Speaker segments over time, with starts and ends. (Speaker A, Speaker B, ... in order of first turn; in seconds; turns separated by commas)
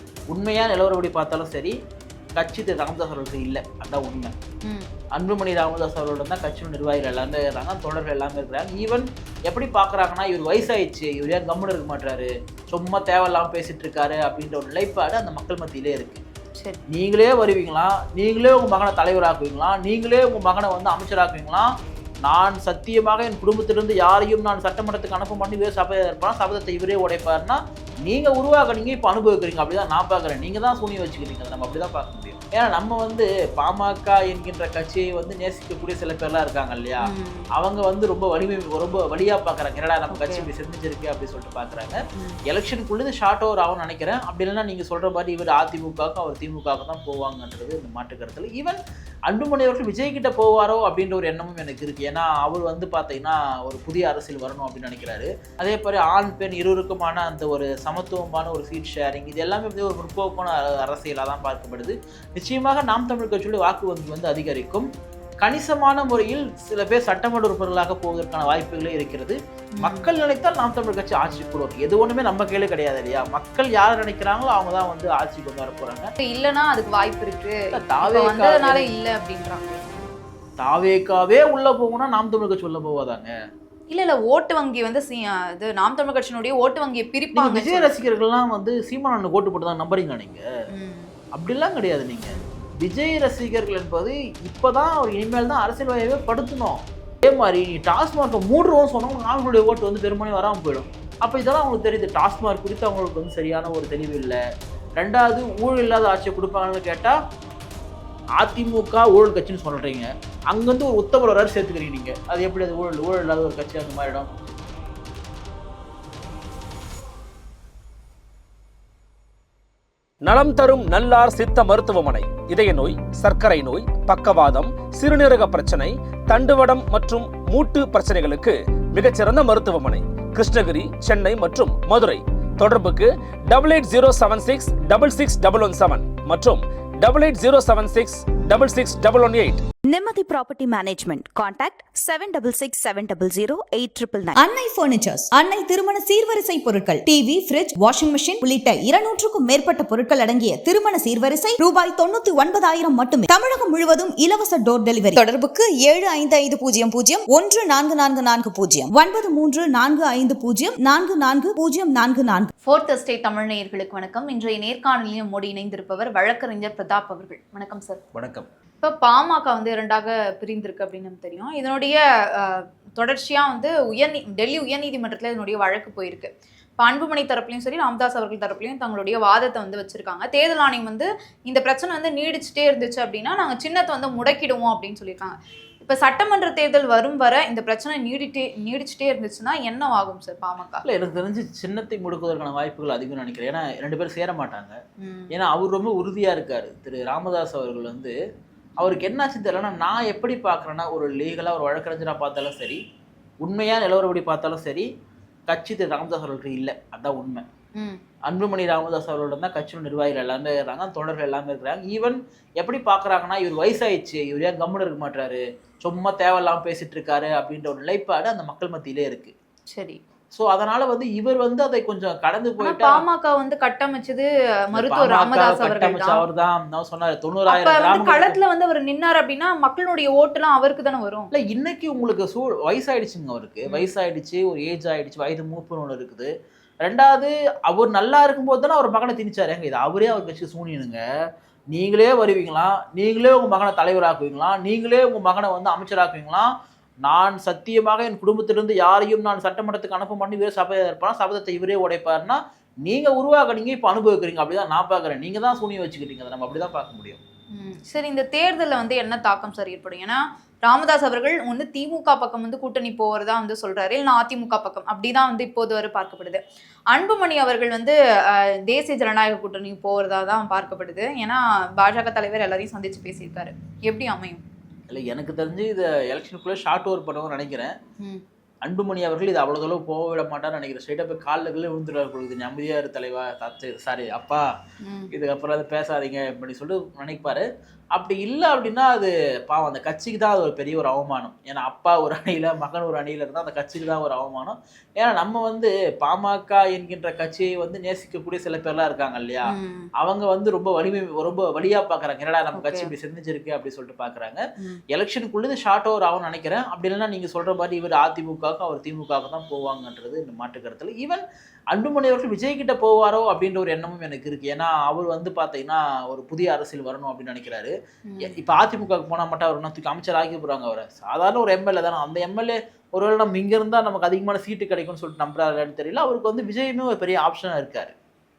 Speaker A: 0.3-1.7, Speaker A: 2.4-4.3, Speaker A: 5.1-16.2, Speaker A: 16.9-21.7, Speaker A: 22.2-42.0, Speaker B: 37.0-37.4, Speaker B: 40.1-40.5, Speaker A: 42.5-64.9, Speaker A: 65.4-76.0, Speaker B: 76.2-79.8, Speaker A: 77.7-78.9, Speaker A: 80.6-83.3, Speaker B: 83.9-88.1, Speaker A: 87.3-90.4, Speaker B: 90.7-91.1, Speaker A: 91.3-104.4, Speaker A: 105.0-107.2, Speaker A: 108.4-114.3, Speaker C: 120.2-139.6, Speaker D: 139.9-144.4, Speaker E: 144.3-162.5, Speaker B: 162.6-168.0, Speaker A: 168.1-168.5, Speaker B: 168.8-190.8, Speaker A: 190.8-194.8, Speaker B: 195.0-195.3, Speaker A: 195.3-198.1, Speaker A: 198.8-202.8, Speaker A: 203.4-204.8, Speaker A: 205.5-207.4, Speaker A: 208.3-219.3, Speaker B: 219.7-220.0, Speaker A: 220.3-223.0, Speaker B: 222.6-226.2, Speaker A: 224.7-228.4, Speaker B: 227.5-231.3, Speaker A: 231.3-236.3, Speaker A: 236.8-241.0, Speaker A: 241.7-246.5, Speaker A: 247.0-257.2, Speaker B: 257.6-266.4, Speaker B: 266.9-274.4, Speaker A: 274.9-277.7, Speaker A: 278.6-284.4, Speaker B: 284.8-285.1, Speaker A: 285.1-299.5, Speaker B: 299.5-299.9, Speaker A: 300.0-304.4, Speaker B: 302.5-302.9, Speaker A: 304.9-317.7, Speaker B: 318.1-318.4, Speaker A: 318.2-327.9